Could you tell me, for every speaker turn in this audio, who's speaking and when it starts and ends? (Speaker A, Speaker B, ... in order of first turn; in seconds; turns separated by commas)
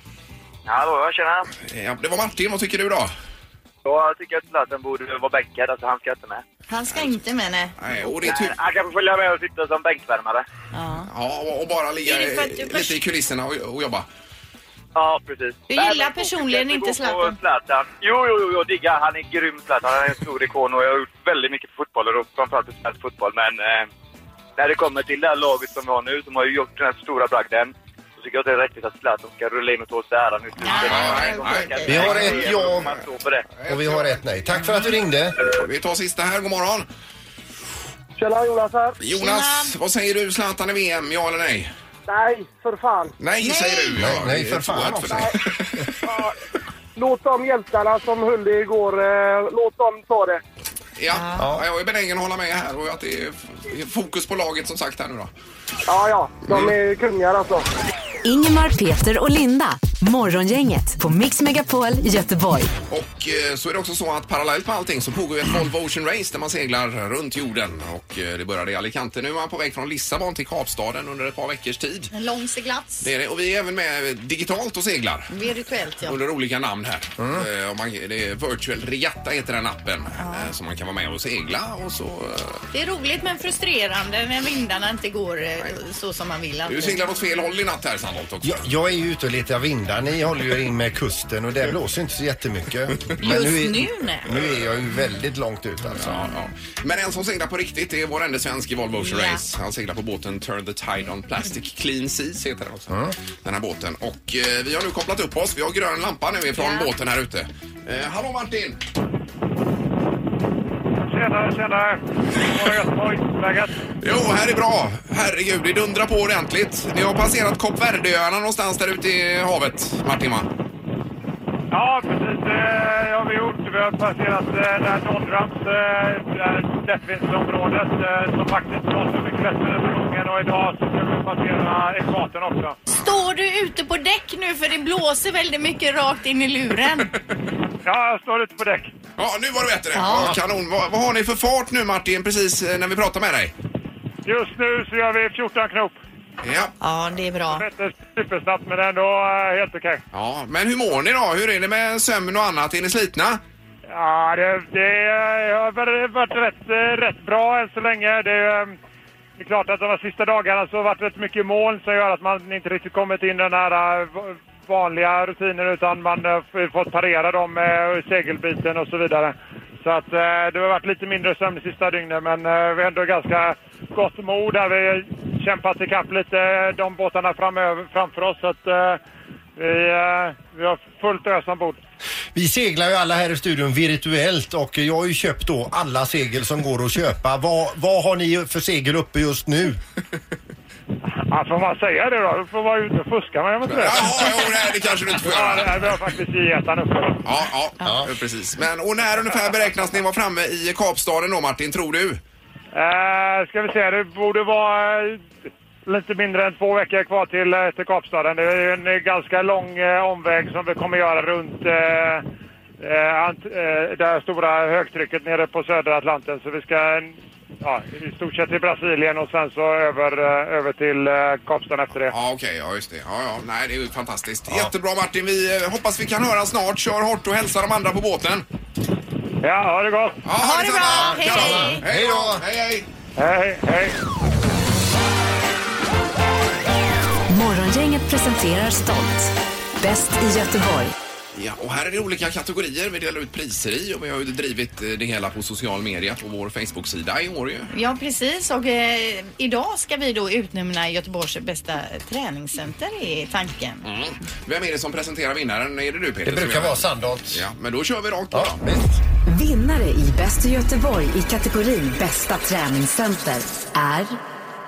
Speaker A: 0.7-1.5, Speaker B: 1.6-3.1, Speaker A: 3.8-6.4, Speaker C: 6.7-7.8, Speaker B: 7.8-8.6, Speaker A: 8.1-10.4, Speaker C: 10.7-11.1, Speaker B: 11.1-14.1, Speaker C: 12.0-13.0, Speaker A: 14.9-23.9, Speaker C: 15.7-17.4, Speaker A: 24.6-33.4, Speaker C: 30.6-32.1, Speaker B: 30.7-32.9, Speaker D: 31.9-32.9, Speaker B: 33.6-34.2, Speaker D: 33.6-35.4, Speaker B: 35.4-36.9, Speaker E: 38.2-39.0, Speaker B: 39.0-41.7, Speaker C: 39.1-39.7, Speaker E: 42.1-43.1, Speaker B: 43.2-45.9, Speaker C: 43.4-43.9, Speaker D: 43.9-45.3, Speaker E: 46.0-46.3, Speaker E: 47.0-50.4, Speaker B: 51.0-55.3, Speaker D: 51.4-51.6, Speaker E: 55.9-57.6, Speaker B: 56.5-56.7, Speaker F: 58.2-62.7, Speaker B: 62.9-72.1, Speaker C: 72.1-73.1, Speaker B: 73.0-75.3, Speaker C: 75.3-76.2, Speaker B: 76.0-82.6, Speaker D: 77.2-77.5, Speaker C: 80.2-80.5, Speaker C: 82.7-87.0, Speaker B: 86.7-88.7, Speaker D: 88.4-96.3, Speaker C: 93.2-94.3, Speaker B: 95.9-108.8, Speaker C: 99.0-99.4, Speaker C: 106.5-106.9, Speaker G: 111.1-113.7, Speaker B: 114.0-120.5, Speaker G: 121.7-132.8, Speaker C: 132.9-137.1, Speaker G: 137.8-138.9, Speaker B: 139.2-143.5, Speaker C: 139.9-140.3, Speaker G: 144.2-146.0, Speaker B: 146.4-146.7, Speaker C: 146.8-147.6, Speaker G: 147.5-150.0, Speaker B: 150.1-153.4, Speaker G: 153.9-158.8, Speaker G: 159.4-179.0, Speaker G: 179.6-181.8, Speaker D: 182.3-189.8, Speaker G: 191.3-197.2, Speaker B: 193.7-196.0, Speaker B: 197.2-202.2, Speaker D: 197.8-198.1, Speaker G: 202.7-205.3, Speaker G: 205.8-212.2, Speaker G: 212.8-222.1, Speaker B: 222.1-228.4, Speaker G: 229.4-230.2, Speaker B: 230.2-232.9, Speaker C: 230.4-231.8, Speaker D: 230.9-232.4, Speaker G: 233.2-234.0, Speaker F: 237.3-240.9, Speaker B: 241.3-247.7, Speaker C: 247.7-253.9, Speaker B: 253.8-258.6, Speaker D: 256.2-257.4, Speaker D: 258.3-259.0, Speaker F: 259.3-264.2